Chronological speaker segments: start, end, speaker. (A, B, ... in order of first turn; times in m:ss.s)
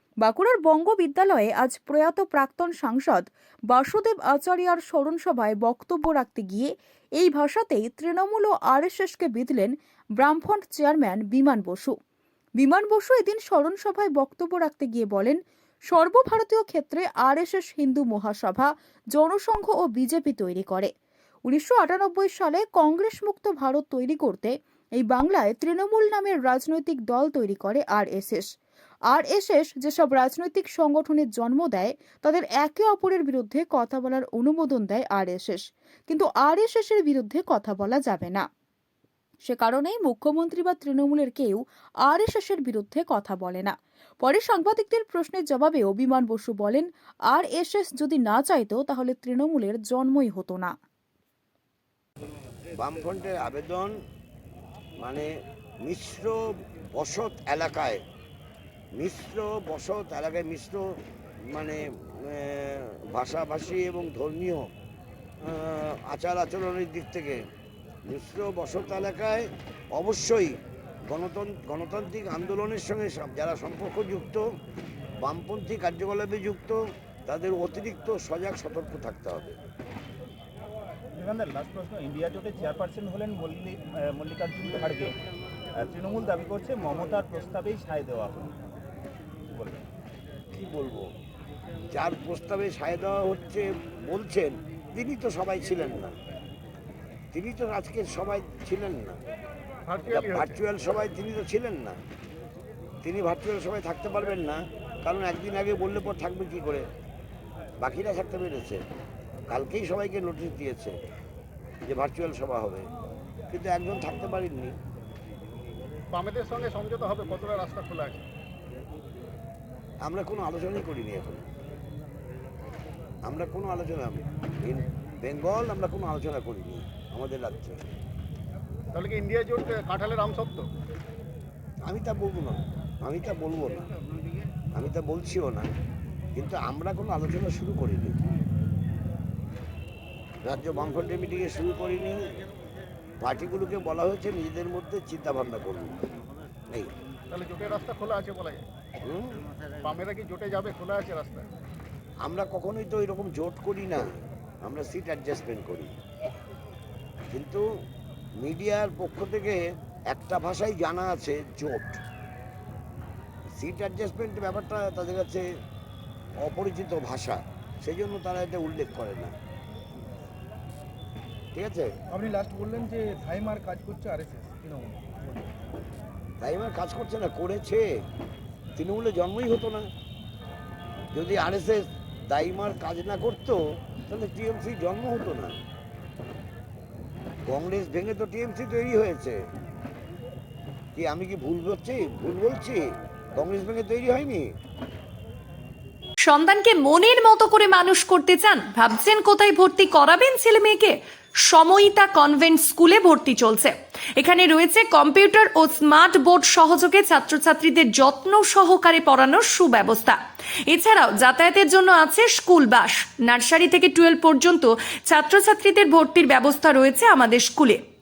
0:00.2-0:12.0 A
0:12.6-0:20.9 A
0:21.5-0:28.5 A
0:29.1-0:38.4 A
0:39.5-0:50.7 A
0:52.8-0:53.9 B
0:55.0-0:55.3 B
0:55.8-0:56.4 B
0:57.0-0:58.0 B
0:59.0-1:00.8 B
1:01.5-1:04.7 B
1:05.4-1:07.4 B
1:08.1-1:10.6 B
1:11.1-1:14.4 B
1:15.2-1:19.6 B
1:21.1-1:25.2 C
1:25.8-1:28.6 C
1:29.5-1:29.8 C
1:30.5-1:31.1 B
1:31.9-1:36.1 B
1:37.3-1:39.2 B
1:39.9-1:40.6 D
1:40.1-1:42.0 B
1:43.0-1:46.9 B
1:47.8-1:48.8 B
1:49.5-1:51.0 B
1:51.9-1:52.9 B
1:53.5-1:54.8 B
1:56.1-1:58.2 D
2:00.0-2:01.5 B
2:03.2-2:07.8 B
2:08.9-2:10.7 D
2:11.8-2:13.9 B
2:14.8-2:15.7 B
2:16.4-2:18.2 B
2:20.4-2:22.2 B
2:23.2-2:26.0 B
2:27.3-2:28.6 D
2:29.0-2:29.4 B
2:29.8-2:31.5 D
2:32.2-2:34.1 B
2:34.6-2:35.9 B
2:37.3-2:37.6 B
2:38.4-2:42.0 B
2:43.6-2:45.5 B
2:46.4-2:49.3 B
2:51.5-2:51.9 B
2:52.1-2:55.5 E
2:56.4-2:57.9 B
2:58.8-2:59.9 B
3:01.1-3:05.6 B
3:07.5-3:09.4 B
3:11.0-3:12.8 B
3:13.4-3:14.5 B
3:16.2-3:30.2 F
3:30.7-3:37.8 F